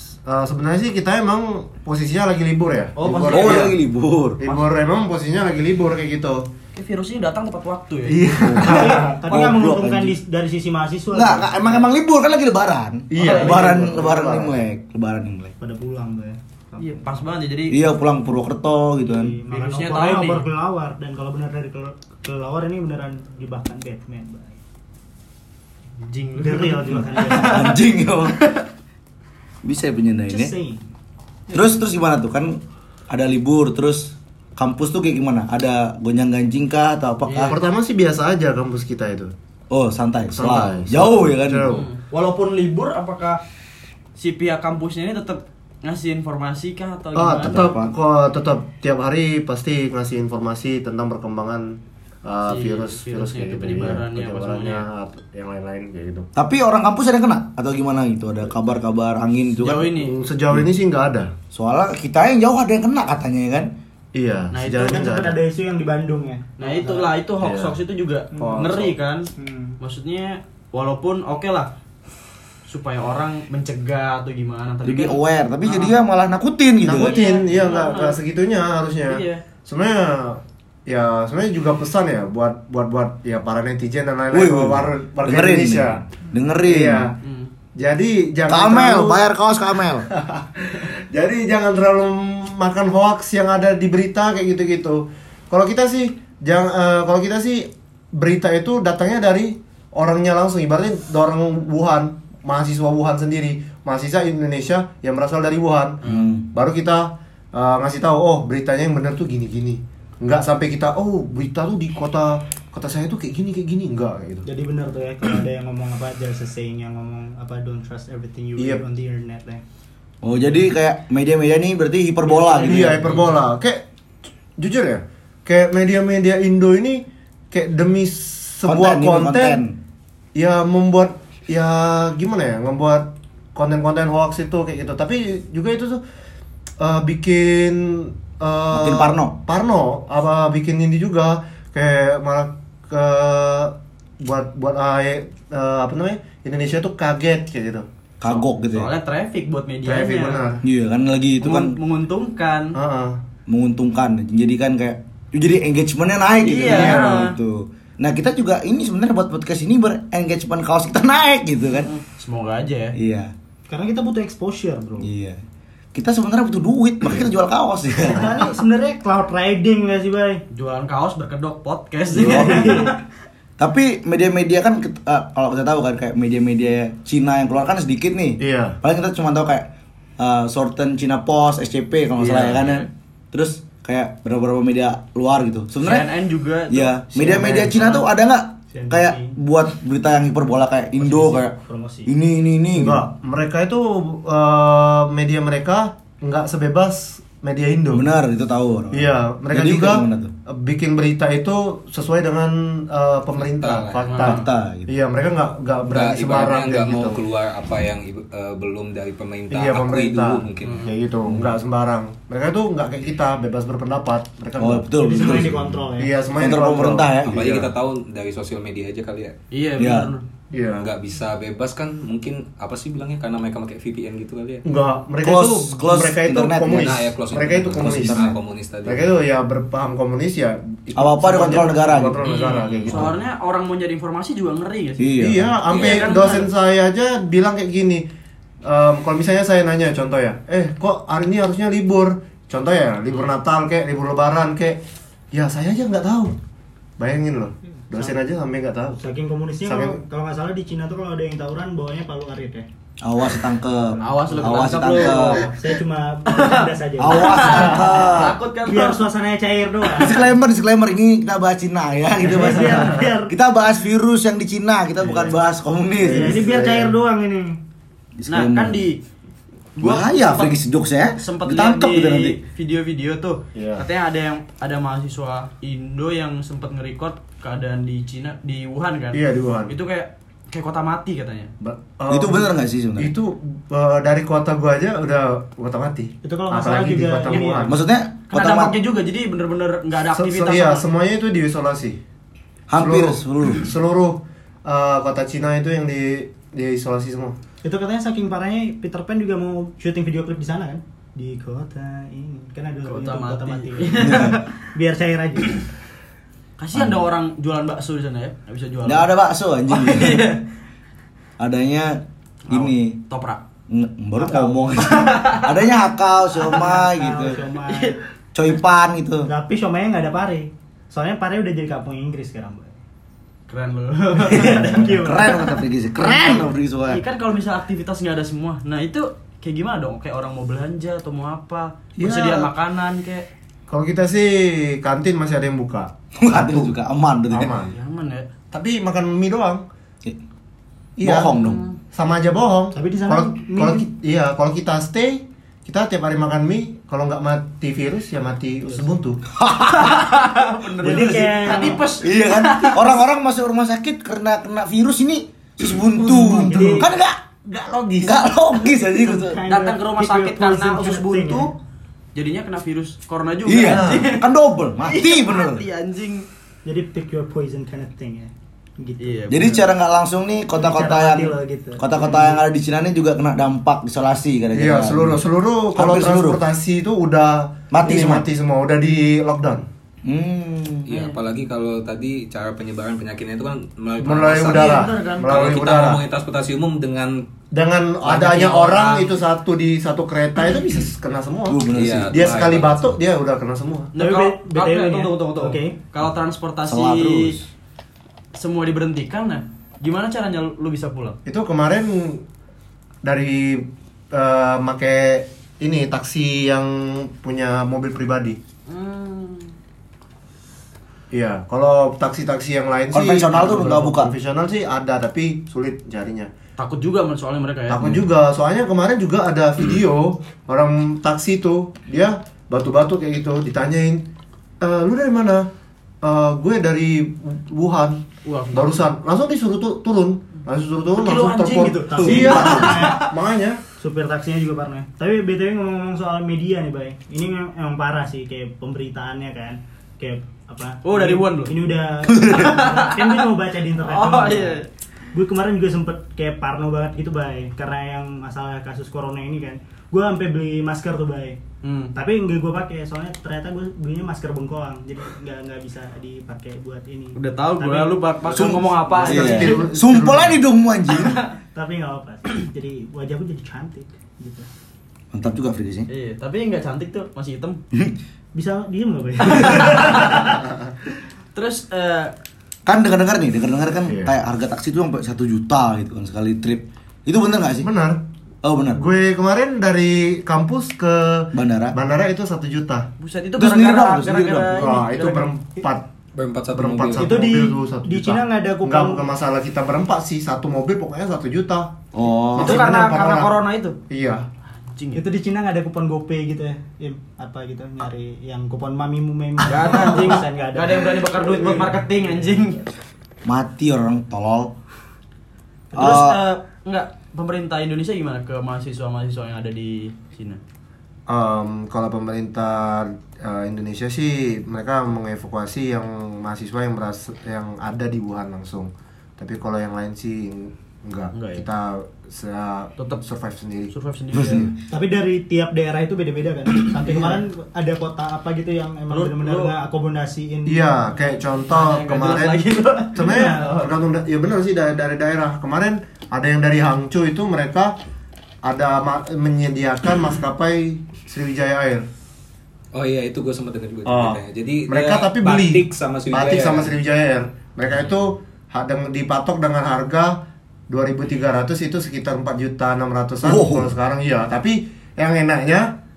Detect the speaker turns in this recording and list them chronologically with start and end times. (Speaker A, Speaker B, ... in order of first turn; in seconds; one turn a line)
Speaker A: 0.2-3.8
Speaker B: 3.0-3.7
Speaker C: 3.3-4.4
Speaker A: 4.4-6.5
Speaker B: 6.8-8.7
Speaker A: 8.1-9.2
Speaker C: 8.4-10.2
Speaker D: 8.6-11.9
Speaker C: 11.1-15.5
Speaker A: 13.1-14.6
Speaker B: 13.2-13.8
Speaker D: 15.6-17.2
Speaker B: 16.8-17.8
Speaker C: 17.7-19.3
Speaker D: 19.0-24.6
Speaker B: 19.5-20.4
Speaker B: 26.0-28.6
Speaker D: 26.3-27.7
Speaker C: 27.1-28.4
Speaker C: 29.6-30.5
Speaker D: 30.3-30.8
Speaker C: 31.5-37.6
Speaker B: 37.2-37.6
Speaker A: 37.5-39.3
Speaker C: 39.7-41.8
Speaker A: 40.3-41.9
Speaker B: 41.7-43.4
Speaker B: 44.1-47.7
Speaker A: 47.1-56.3
Speaker C: 47.4-47.9
Speaker B: 52.5-54.8
Speaker C: 56.3-59.9
Speaker B: 59.6-60.1
Speaker A: 60.0-61.3
Speaker C: 61.5-63.7
Speaker A: 64.1-65.4
Speaker B: 64.5-65.0
Speaker D: 64.7-67.1
Speaker B: 66.6-71.7
Speaker A: 67.4-67.7
Speaker A: 68.3-68.9
Speaker D: 69.3-69.8
Speaker B: 72.7-75.9
Speaker C: 74.8-77.2
Speaker A: 76.8-86.0
Speaker B: 76.9-78.2
Speaker B: 79.1-79.4
Speaker C: 84.3-87.1
Speaker A: 86.7-87.2
Speaker B: 87.2-87.5
Speaker A: 87.8-89.2
Speaker C: 88.5-90.1
Speaker A: 90.1-106.0
Speaker B: 106.0-106.3
Speaker C: 106.0-106.5
Speaker A: 106.5-114.5
Speaker D: 114.4-119.6
Speaker A: 118.6-118.8
Speaker C: 120.2-123.1
Speaker D: 122.2-123.3
Speaker A: 122.6-123.8
Speaker A: 124.6-129.6
Speaker C: 128.6-129.8
Speaker A: 130.3-136.0
Speaker A: 136.8-147.9
Speaker C: 138.7-139.3
Speaker C: 148.2-148.9
Speaker B: 148.2-150.5
Speaker A: 149.8-150.6
Speaker C: 150.6-151.8
Speaker B: 151.4-152.8
Speaker A: 152.7-153.2
Speaker C: 153.5-161.9
Speaker B: 156.4-157.4
Speaker A: 156.7-157.2
Speaker B: 161.7-162.9
Speaker C: 162.9-163.3
Speaker D: 163.7-165.1
Speaker C: 165.0-165.4
Speaker C: 165.9-168.5
Speaker D: 168.0-170.4
Speaker B: 170.5-173.0
Speaker D: 172.1-173.0
Speaker C: 172.2-172.8
Speaker C: 173.6-186.1
Speaker A: 178.4-178.8
Speaker A: 182.2-182.8
Speaker B: 185.8-188.0
Speaker C: 186.7-193.0
Speaker D: 188.7-189.4
Speaker D: 191.0-192.1
Speaker A: 192.7-198.1
Speaker C: 197.9-200.3
Speaker A: 198.9-207.2
Speaker E: 203.3-204.3
Speaker B: 204.1-204.4
Speaker C: 204.2-204.9
Speaker E: 205.9-210.9
Speaker A: 209.5-215.4
Speaker B: 210.6-210.9
Speaker C: 214.6-215.7
Speaker D: 214.9-216.1
Speaker A: 216.0-217.6
Speaker C: 216.4-217.7
Speaker E: 217.3-219.3
Speaker B: 219.5-220.2
Speaker C: 219.8-220.1
Speaker A: 220.5-220.9
Speaker E: 220.7-224.6
Speaker A: 224.7-228.3
Speaker C: 225.2-227.0
Speaker E: 226.7-229.1
Speaker C: 227.8-228.3
Speaker A: 228.8-233.1
Speaker C: 230.9-232.2
Speaker B: 232.2-235.1
Speaker C: 235.0-235.6
Speaker A: 235.2-238.0
Speaker E: 235.7-236.4
Speaker B: 235.7-236.5
Speaker A: 238.6-244.8
Speaker A: 245.3-246.3
Speaker A: 247.0-249.0
Speaker D: 249.0-252.7
Speaker A: 249.6-250.0
Speaker C: 253.0-255.5
Speaker B: 254.0-255.5
Speaker D: 255.4-260.4
Speaker B: 256.2-259.0
Speaker C: 257.0-258.3
Speaker C: 259.9-266.5
Speaker D: 262.2-263.3
Speaker A: 266.0-266.9
Speaker D: 266.0-267.6
Speaker C: 268.2-268.8
Speaker B: 268.3-269.0
Speaker B: 269.8-270.5
Speaker C: 269.8-272.4
Speaker B: 271.2-281.5
Speaker A: 273.5-273.8
Speaker A: 279.1-279.7
Speaker A: 281.6-287.8
Speaker C: 282.1-283.1
Speaker D: 286.2-287.8
Speaker C: 287.7-288.8
Speaker B: 288.3-290.9
Speaker A: 290.1-292.0
Speaker C: 292.7-293.7
Speaker A: 292.8-297.4
Speaker D: 297.6-305.6
Speaker B: 302.8-304.5
Speaker C: 304.0-304.4
Speaker B: 306.6-309.1
Speaker C: 306.7-307.1
Speaker C: 308.8-310.3
Speaker B: 309.7-310.4
Speaker C: 311.4-313.0
Speaker B: 312.5-313.4
Speaker C: 313.7-317.4
Speaker B: 314.3-315.5
Speaker D: 316.5-317.9
Speaker B: 317.5-318.0
Speaker C: 318.3-319.3
Speaker D: 319.2-322.8
Speaker B: 323.5-325.0
Speaker D: 324.2-325.5
Speaker C: 324.5-327.0
Speaker B: 326.0-333.3
Speaker A: 332.0-332.5
Speaker A: 333.7-336.7
Speaker C: 336.2-337.5
Speaker A: 337.3-337.7
Speaker B: 337.7-338.3
Speaker A: 338.5-339.6
Speaker A: 341.0-341.4
Speaker C: 341.0-341.6
Speaker B: 341.4-341.8
Speaker A: 341.9-349.2
Speaker D: 342.7-343.9
Speaker D: 348.6-348.9
Speaker C: 349.3-350.2
Speaker B: 349.7-353.0
Speaker D: 350.8-351.9
Speaker C: 352.0-357.2
Speaker A: 356.0-356.9
Speaker D: 356.2-356.9
Speaker A: 357.4-358.3
Speaker C: 358.0-359.4
Speaker D: 358.9-361.5
Speaker B: 359.4-361.5
Speaker B: 362.1-364.3
Speaker C: 363.4-365.6
Speaker A: 363.7-364.0
Speaker B: 364.8-366.3
Speaker D: 366.6-369.6
Speaker B: 369.0-369.6
Speaker C: 369.3-375.2
Speaker D: 370.6-371.9
Speaker A: 374.5-379.6
Speaker C: 375.7-376.4
Speaker C: 377.7-378.3
Speaker C: 380.0-380.9
Speaker E: 380.9-387.2
Speaker A: 384.0-386.0
Speaker B: 384.5-385.6
Speaker A: 387.5-393.9
Speaker B: 388.1-389.1
Speaker E: 388.3-388.7
Speaker C: 391.5-392.6
Speaker E: 391.7-392.9
Speaker B: 393.9-397.4
Speaker D: 393.9-395.8
Speaker C: 396.6-397.5
Speaker B: 398.3-401.2
Speaker A: 401.2-402.2
Speaker A: 403.0-408.4
Speaker B: 408.7-409.5
Speaker A: 411.1-416.3
Speaker C: 412.9-414.1
Speaker B: 416.6-417.9
Speaker A: 417.7-424.0
Speaker A: 424.6-425.5
Speaker A: 426.0-433.6
Speaker B: 428.2-428.9
Speaker B: 430.9-433.1
Speaker D: 431.8-433.1
Speaker D: 433.8-444.6
Speaker B: 440.8-441.5
Speaker C: 442.1-442.5
Speaker B: 442.2-444.7
Speaker D: 445.1-451.4
Speaker B: 451.6-451.9
Speaker D: 451.9-458.5
Speaker B: 457.1-459.6
Speaker C: 458.3-461.2
Speaker A: 459.0-460.4
Speaker B: 460.9-461.2
Speaker D: 461.5-464.5
Speaker C: 465.1-465.9
Speaker B: 465.9-467.6
Speaker D: 468.3-470.4
Speaker B: 469.2-470.3
Speaker A: 470.4-470.7
Speaker B: 471.3-472.1
Speaker C: 472.6-477.7
Speaker A: 473.9-474.1
Speaker A: 477.6-478.0
Speaker C: 478.4-478.8
Speaker A: 478.7-482.9
Speaker C: 481.3-481.8
Speaker B: 483.0-485.3
Speaker C: 483.4-484.7
Speaker A: 484.5-485.9
Speaker E: 486.1-487.2
Speaker A: 486.5-491.8
Speaker D: 487.0-489.1
Speaker C: 491.9-492.7
Speaker A: 492.3-493.3
Speaker B: 492.4-493.8
Speaker A: 493.9-494.2
Speaker B: 494.6-495.0
Speaker D: 494.9-501.7
Speaker B: 499.4-502.6
Speaker C: 503.2-504.5
Speaker C: 505.7-506.2
Speaker B: 505.7-510.4
Speaker A: 511.1-523.7
Speaker B: 521.1-521.5
Speaker B: 522.8-523.0
Speaker B: 523.7-524.5
Speaker C: 524.1-524.5
Speaker D: 524.7-530.8
Speaker B: 528.9-529.5
Speaker A: 530.5-537.8
Speaker B: 531.5-533.7
Speaker D: 533.0-533.5
Speaker A: 538.4-541.9
Speaker E: 542.7-546.8
Speaker A: 543.9-555.7
Speaker C: 553.2-553.7